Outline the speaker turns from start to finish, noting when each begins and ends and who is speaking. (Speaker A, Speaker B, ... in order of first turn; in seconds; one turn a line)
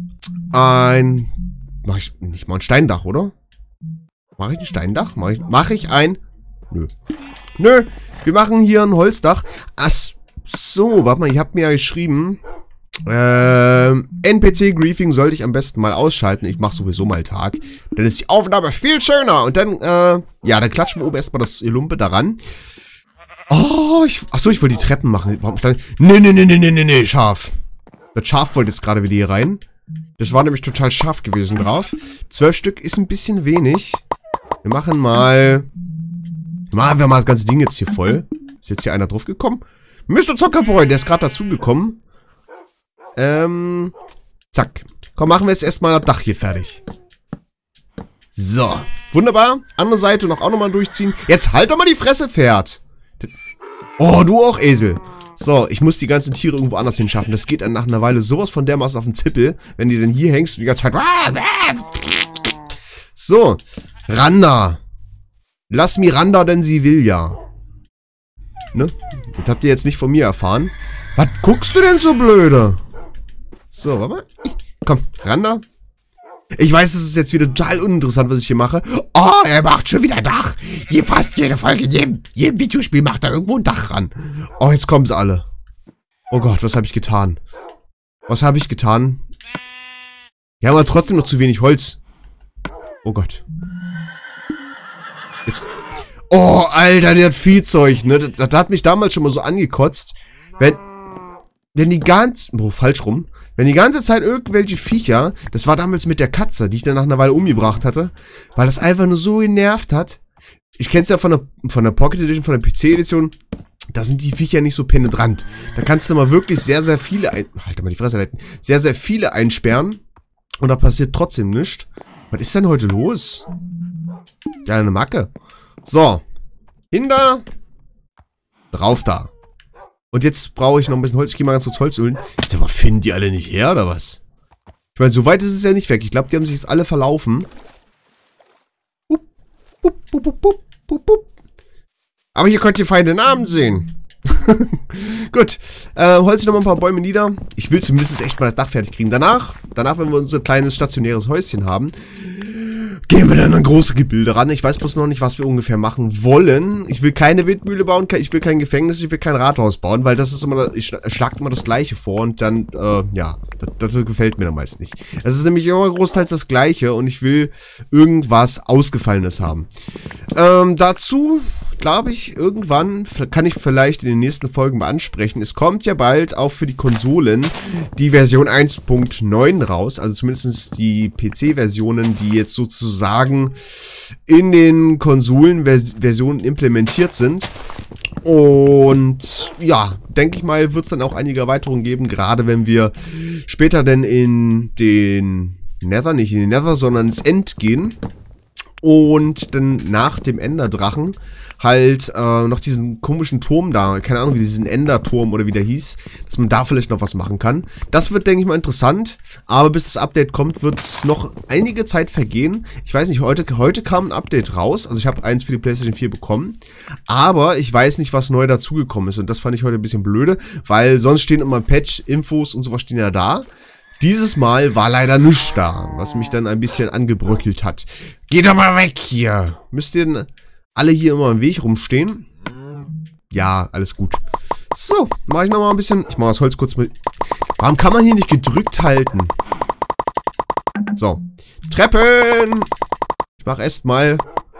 Speaker A: 0.5-1.3
Speaker A: 1.8-3.3
Speaker A: 4.4-6.2
Speaker A: 7.6-12.4
Speaker A: 13.1-22.4
Speaker A: 23.5-27.5
Speaker A: 28.1-29.6
Speaker A: 30.2-34.0
Speaker A: 34.6-35.7
Speaker A: 36.7-42.0
Speaker A: 43.1-43.9
Speaker A: 44.5-46.8
Speaker A: 48.3-53.3
Speaker A: 54.0-62.5
Speaker A: 63.1-64.8
Speaker A: 65.7-67.4
Speaker A: 68.7-72.8
Speaker A: 73.7-75.6
Speaker A: 76.5-85.5
Speaker A: 86.3-87.4
Speaker A: 88.3-89.2
Speaker A: 90.6-92.0
Speaker A: 93.0-93.4
Speaker A: 96.3-100.8
Speaker A: 101.7-110.2
Speaker A: 110.8-113.3
Speaker A: 113.9-120.0
Speaker A: 120.6-123.4
Speaker A: 124.6-125.3
Speaker A: 125.8-126.2
Speaker A: 126.9-127.4
Speaker A: 128.7-129.3
Speaker A: 130.1-134.2
Speaker A: 134.9-137.5
Speaker A: 139.8-141.3
Speaker A: 142.3-169.7
Speaker A: 170.3-187.5
Speaker A: 188.2-198.0
Speaker A: 198.8-216.6
Speaker A: 217.1-223.5
Speaker A: 224.0-232.2
Speaker A: 233.3-234.2
Speaker A: 234.7-236.9
Speaker A: 237.6-239.3
Speaker A: 240.9-242.7
Speaker A: 243.4-244.2